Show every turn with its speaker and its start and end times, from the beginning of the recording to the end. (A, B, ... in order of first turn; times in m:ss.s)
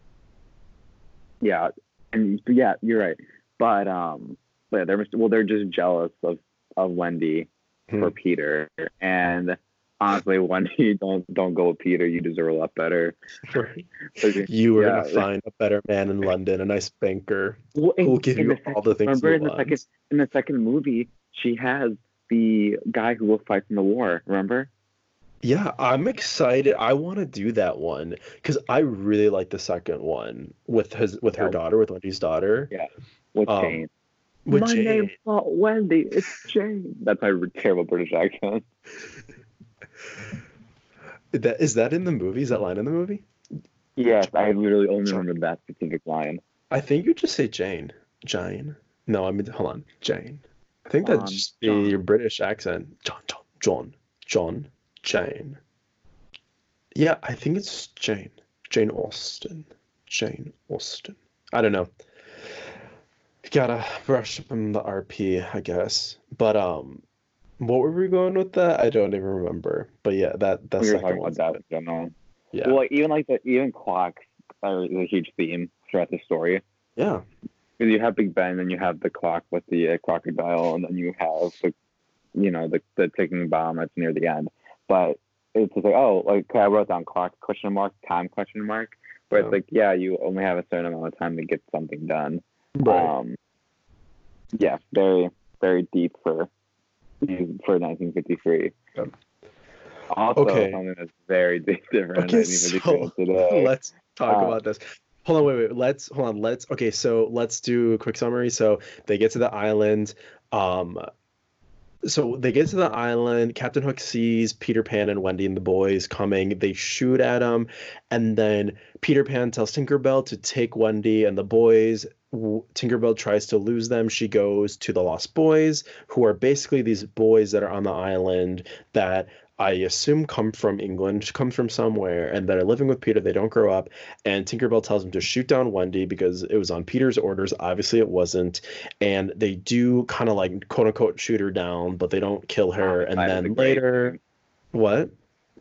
0:01.4-0:13.2 A
0:13.5-0:13.8 B
0:14.2-0:15.3 A
0:14.4-0:19.8 B
0:17.8-0:24.7 A
0:25.4-0:32.7 B
0:32.7-0:33.9 A
0:33.5-0:33.9 B
0:34.5-0:35.1 B
0:34.5-0:38.7 A
0:41.3-0:43.2 B
0:44.0-0:46.4 A
0:46.7-0:55.6 B
0:51.0-0:52.0 A
0:57.0-1:01.9 B
1:03.4-1:07.0 B
1:07.6-1:11.6 B
1:10.8-1:12.1 A
1:12.6-1:16.6 A
1:17.0-1:17.2 B
1:17.8-1:21.7 A
1:22.4-1:33.4 A
1:32.8-1:33.1 B
1:34.6-1:36.5 A
1:37.2-1:38.8 A
1:40.1-1:43.7 A
1:40.4-1:40.8 B
1:42.2-1:51.0 B
1:44.3-1:44.6 A
1:52.0-2:24.2 B
2:22.8-2:24.2 A
2:24.7-2:25.1 B